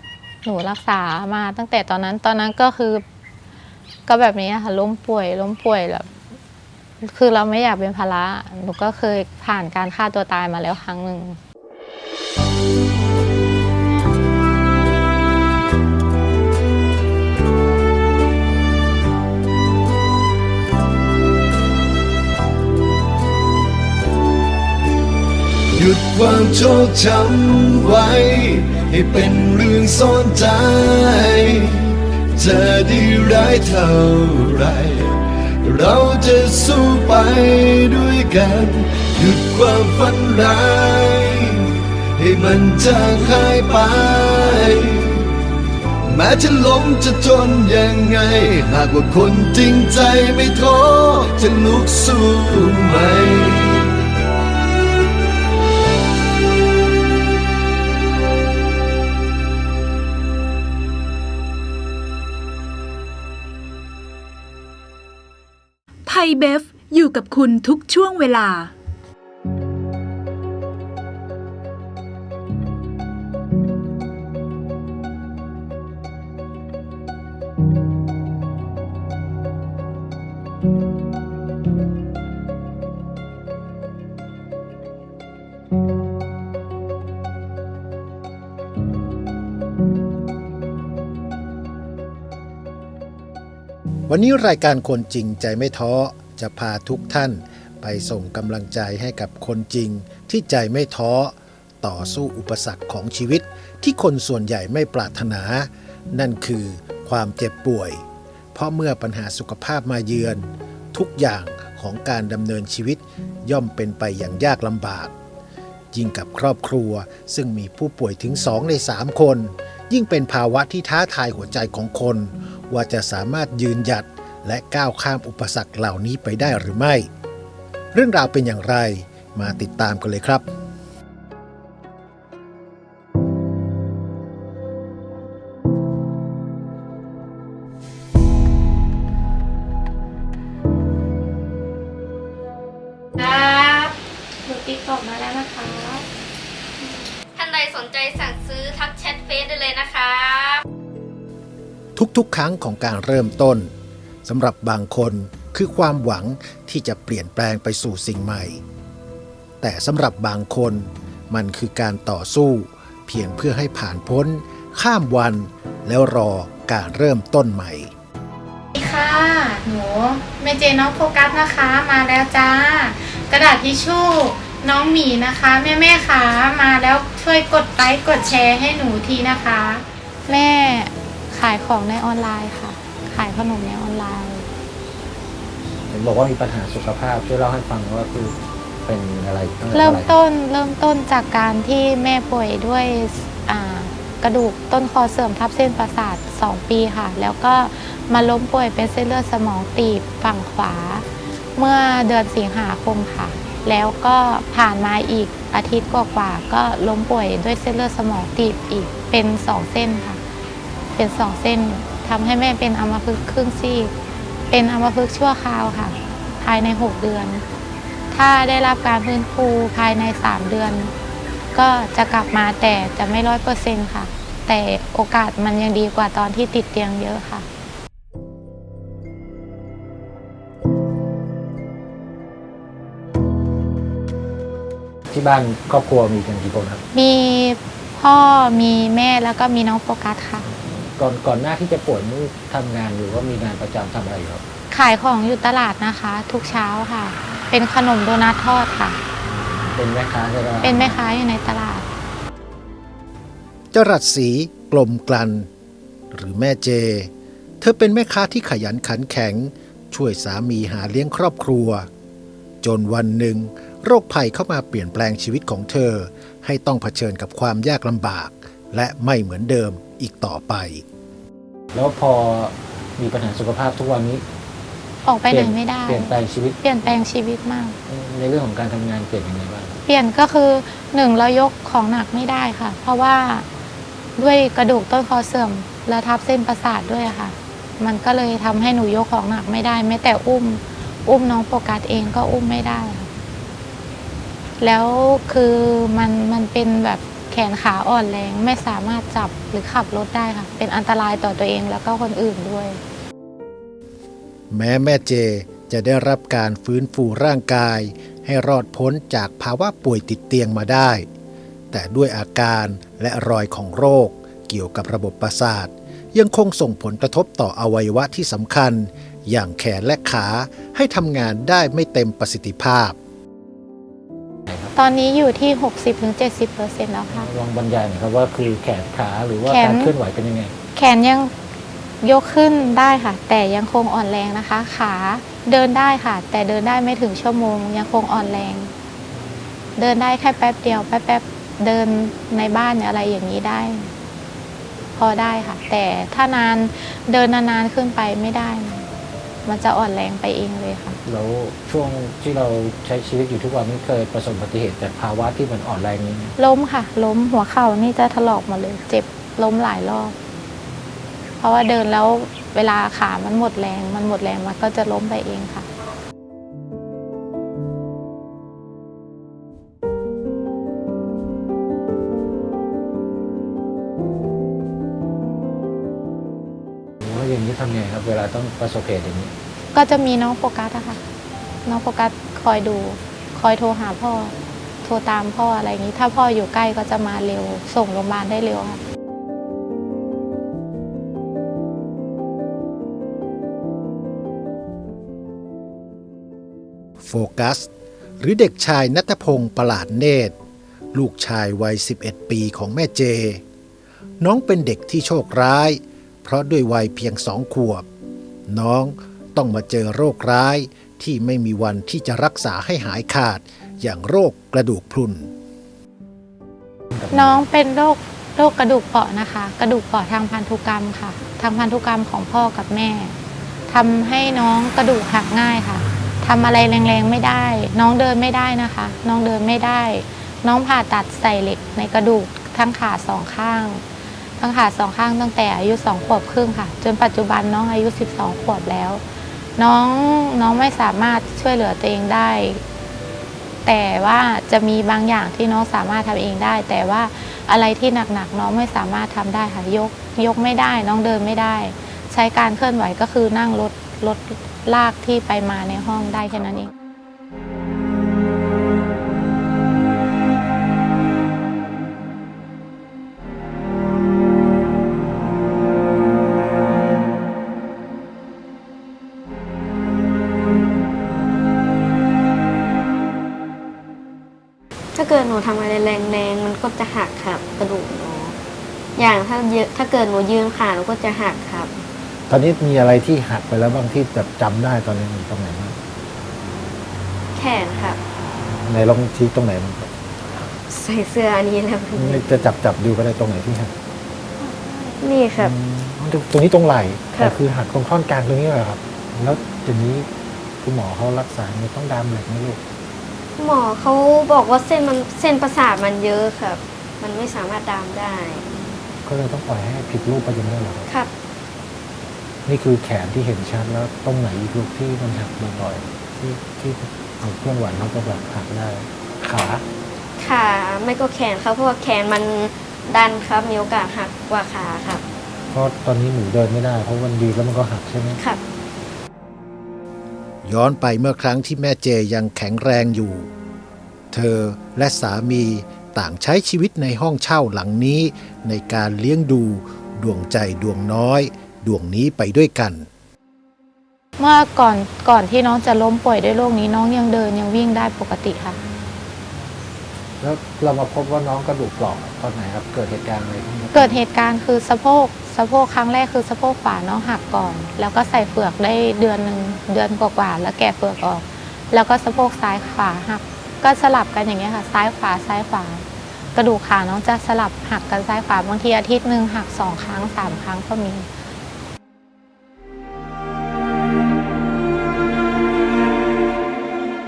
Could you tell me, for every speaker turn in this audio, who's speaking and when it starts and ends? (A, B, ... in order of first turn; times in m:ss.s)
0:00.4-0:03.0 A
0:04.1-0:06.1 A
0:07.0-0:11.4 A
0:25.8-0:45.2 B
0:46.1-0:53.9 B
1:06.1-1:08.7 C
1:34.1-1:55.1 D
1:55.9-2:07.1 D
2:07.9-2:10.5 D
2:23.2-2:23.9 E
2:24.4-2:26.0 A
2:26.9-2:30.6 E
2:32.0-2:33.7 D
2:34.3-2:38.6 D
2:39.6-2:47.9 D
2:48.8-3:04.5 A
3:05.9-3:10.2 F
3:09.7-3:21.0 A
3:21.6-3:30.2 A
3:31.0-3:33.9 A
3:34.5-3:37.4 A
3:38.1-3:40.9 A
3:41.5-3:47.5 A
3:55.1-3:56.8 F
3:56.9-4:00.5 A
4:00.9-4:04.4 F
4:04.7-4:09.0 A
4:09.7-4:11.0 F
4:10.6-4:11.9 A
4:13.7-4:15.5 D
4:16.1-4:21.9 D
4:22.6-4:30.8 D
4:31.7-4:34.2 F
4:35.0-4:37.8 A
4:35.3-4:36.6 F
4:37.9-4:39.8 F
4:39.9-4:43.5 A
4:44.2-4:53.1 A
4:54.6-5:02.8 A
5:04.5-5:11.1 D
5:11.7-5:23.0 D
5:24.5-5:24.7 F
5:24.8-5:27.3 A
5:27.1-5:30.6 F
5:29.5-5:29.9 A
5:30.8-5:31.3 A
5:32.0-5:38.7 A
5:39.8-5:43.9 A
5:45.0-5:48.9 A
5:49.5-5:51.0 A
5:51.0-5:56.4 F
5:56.4-6:00.2 A
6:01.4-6:05.7 A
6:17.0-6:19.3 F
6:19.7-6:21.0 A
6:21.6-6:28.8 A
6:37.0-6:37.7 D
6:38.2-6:40.4 D
6:40.9-6:43.4 D
6:44.2-6:47.9 D
6:48.5-6:55.3 D
6:56.9-6:57.4 F
6:57.1-7:03.2 A
7:03.7-7:13.8 A
7:14.4-7:19.0 A
7:19.6-7:22.6 A
7:23.6-7:36.7 A
7:55.0-7:58.4 E
7:59.0-8:01.7 E
8:02.3-8:05.8 F
8:07.4-8:08.0 E
8:08.5-8:09.9 F
8:10.7-8:12.2 E
8:12.0-8:13.7 F
8:14.4-8:15.0 A
8:15.0-8:15.5 E
8:15.4-8:20.1 F
8:20.6-8:22.6 F
8:23.4-8:28.5 E
8:29.0-8:30.8 F
8:32.5-8:39.6 F
8:40.2-8:45.0 E
8:45.5-8:48.2 F
8:50.4-8:53.3 D
8:54.1-9:02.9 D
9:04.2-9:08.6 A
9:10.2-9:14.0 F
9:13.7-9:31.1 A